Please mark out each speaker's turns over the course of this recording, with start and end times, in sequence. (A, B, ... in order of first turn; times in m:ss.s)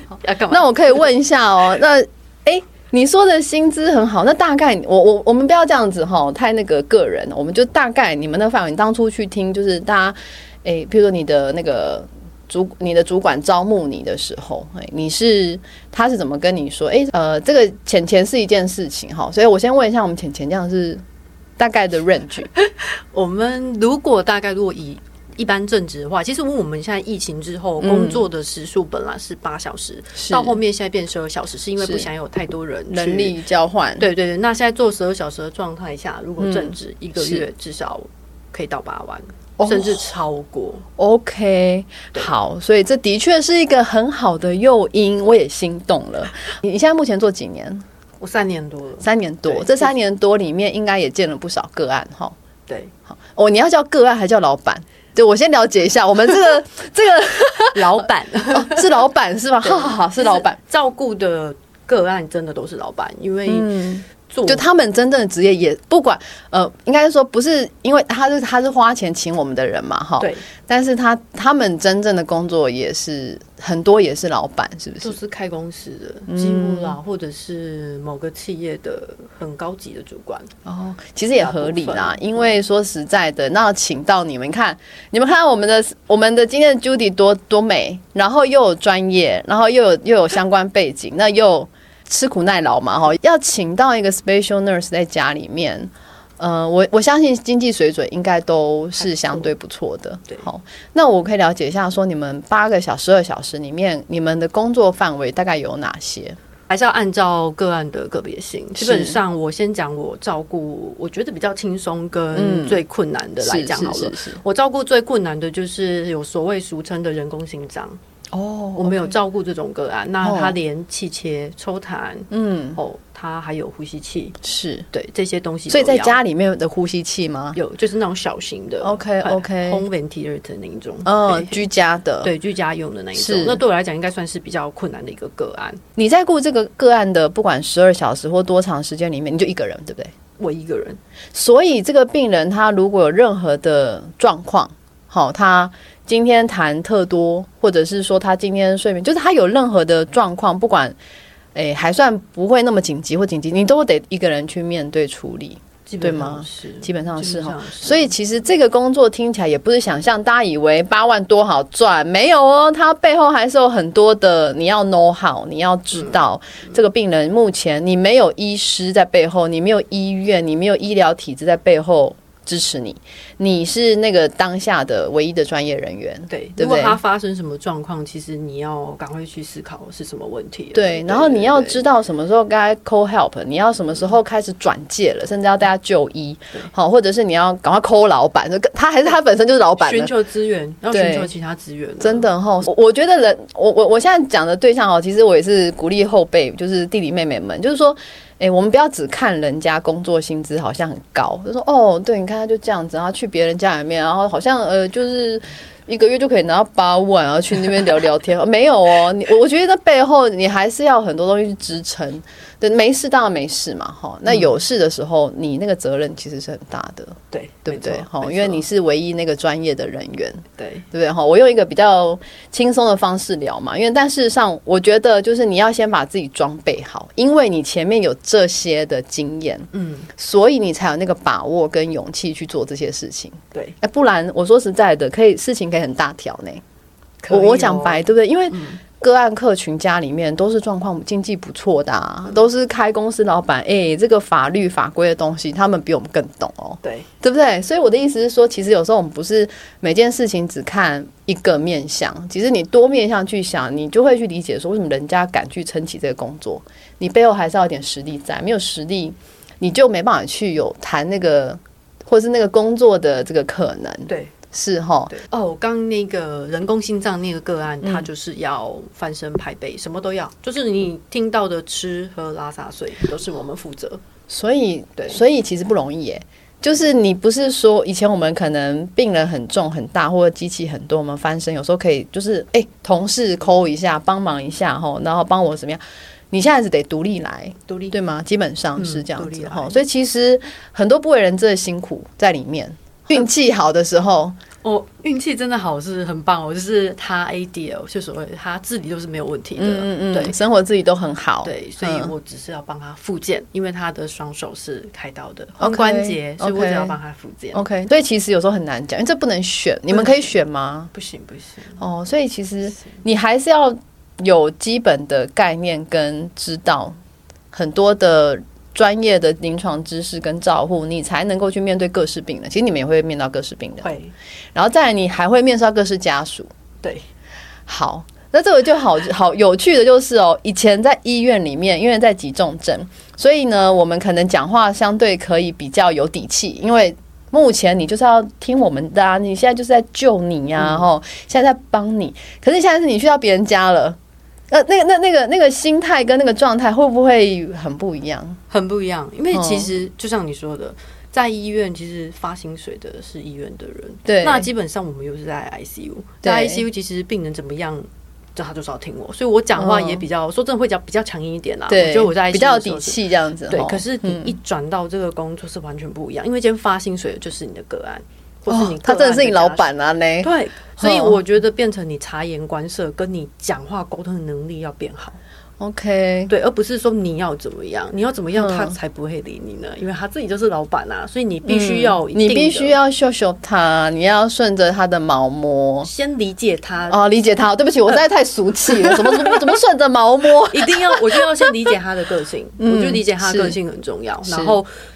0:00.2-0:01.1 A
0:00.3-0:21.0 B
0:21.6-0:22.5 B
0:22.6-0:33.4 A
0:27.8-0:28.2 B
0:30.2-0:30.6 B
0:31.8-0:32.1 B
0:32.9-0:34.1 B
0:34.0-0:40.8 A
0:36.4-0:37.4 B
0:39.6-0:40.1 B
0:41.0-0:47.8 B
0:48.2-0:49.9 A
0:49.0-0:52.4 B
0:52.7-0:52.9 A
0:53.1-1:00.6 B
0:57.7-0:59.0 A
0:59.6-1:04.7 A
1:03.5-1:15.2 B
1:10.2-1:10.4 A
1:15.0-1:20.5 A
1:16.3-1:17.0 B
1:20.6-1:46.4 B
1:21.4-1:22.6 A
1:39.0-1:39.5 A
1:46.7-1:58.0 A
1:48.8-1:49.2 B
1:52.3-1:52.8 B
1:53.4-1:54.4 B
1:58.3-1:59.1 B
1:58.8-2:04.4 A
2:00.2-2:00.6 B
2:02.3-2:02.8 B
2:04.4-2:04.9 B
2:04.9-2:06.2 A
2:05.7-2:07.6 B
2:07.6-2:11.6 A
2:08.8-2:09.8 B
2:11.0-2:12.3 B
2:12.2-2:15.8 A
2:13.2-2:13.6 B
2:16.0-2:20.1 B
2:20.4-2:21.0 A
2:21.3-2:31.0 B
2:31.6-2:57.0 B
2:35.9-2:38.1 A
2:56.3-3:01.8 A
3:00.7-3:10.1 B
3:09.8-3:12.3 A
3:10.9-3:11.3 B
3:12.0-3:56.6 B
3:37.3-3:38.6 A
3:40.6-3:40.9 A
3:49.7-3:50.1 A
3:57.2-3:58.8 A
3:57.3-4:25.2 B
4:24.1-4:24.3 A
4:25.1-4:34.0 A
4:34.3-4:54.4 B
4:47.7-4:47.9 A
4:48.8-4:49.8 A
4:54.6-5:00.4 A
4:59.6-5:02.1 B
5:01.4-5:07.6 A
5:05.6-5:07.0 B
5:07.5-5:10.9 B
5:09.9-5:10.2 A
5:10.9-5:11.8 A
5:11.8-5:17.0 B
5:17.5-5:24.0 B
5:23.8-5:24.1 A
5:24.6-5:26.5 B
5:27.7-5:44.0 B
5:40.6-5:40.9 A
5:44.5-5:48.4 B
5:48.5-6:09.7 A
5:49.3-5:49.7 B
5:54.1-5:54.5 B
5:56.2-5:56.6 B
5:59.6-6:00.0 B
6:01.7-6:04.4 B
6:08.5-6:11.2 B
6:10.2-6:15.2 A
6:15.6-6:16.3 B
6:16.3-6:22.8 A
6:18.4-6:18.8 B
6:21.5-6:25.9 B
6:25.8-6:27.0 A
6:26.9-6:31.5 B
6:28.8-6:29.4 A
6:30.5-6:34.7 A
6:32.6-6:33.6 B
6:34.3-6:34.6 B